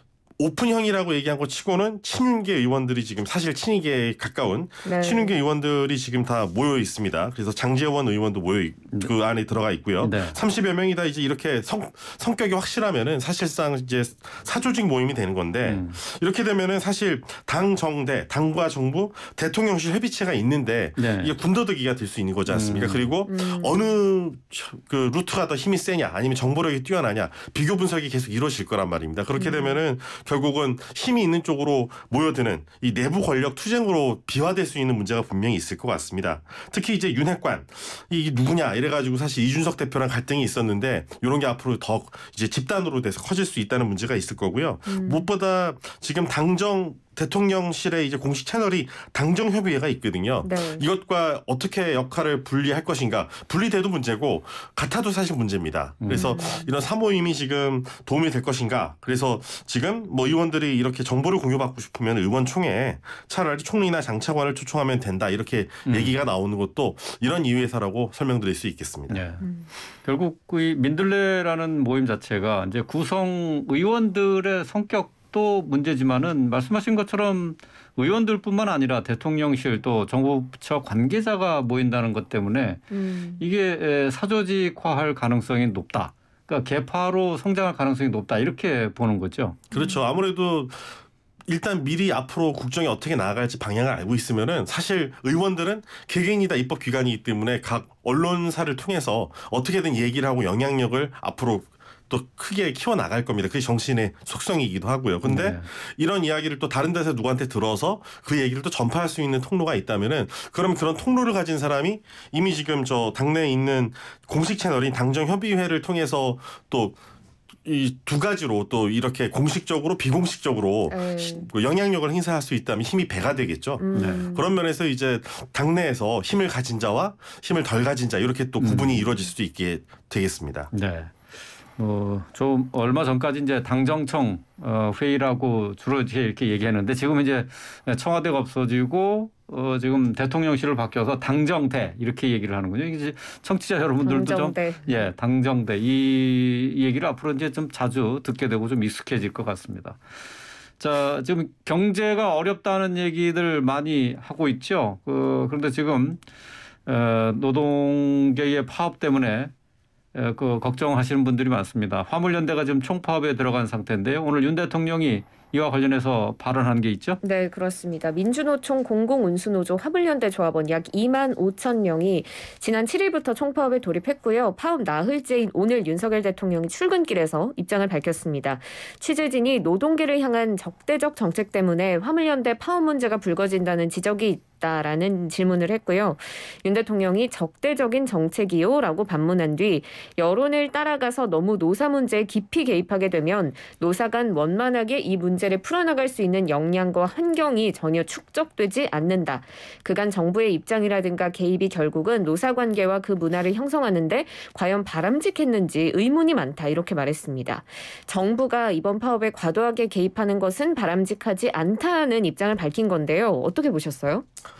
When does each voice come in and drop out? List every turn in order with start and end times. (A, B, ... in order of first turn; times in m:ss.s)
0:00.4-1:09.2 A
0:04.8-0:05.4 B
0:10.0-0:10.4 C
0:15.6-0:16.0 C
0:21.0-0:21.3 C
0:22.5-0:23.1 C
0:23.2-0:23.9 B
0:29.4-0:29.8 B
0:44.9-0:45.3 B
0:50.4-0:50.8 B
0:56.0-0:56.3 C
0:56.1-0:56.7 B
1:05.8-1:06.1 C
1:09.1-1:09.5 C
1:09.4-1:09.7 B
1:10.0-1:29.6 C
1:22.9-1:23.4 B
1:29.7-1:30.0 B
1:29.7-1:57.0 A
1:45.2-1:45.7 C
1:57.6-2:10.7 A
2:00.9-2:01.5 B
2:03.8-2:04.5 B
2:03.9-2:04.2 C
2:08.6-2:09.0 C
2:10.7-2:11.1 C
2:11.8-2:30.0 C
2:24.0-2:25.1 B
2:30.8-2:36.2 C
2:36.8-2:39.5 C
2:40.1-2:47.2 C
2:47.2-3:34.2 B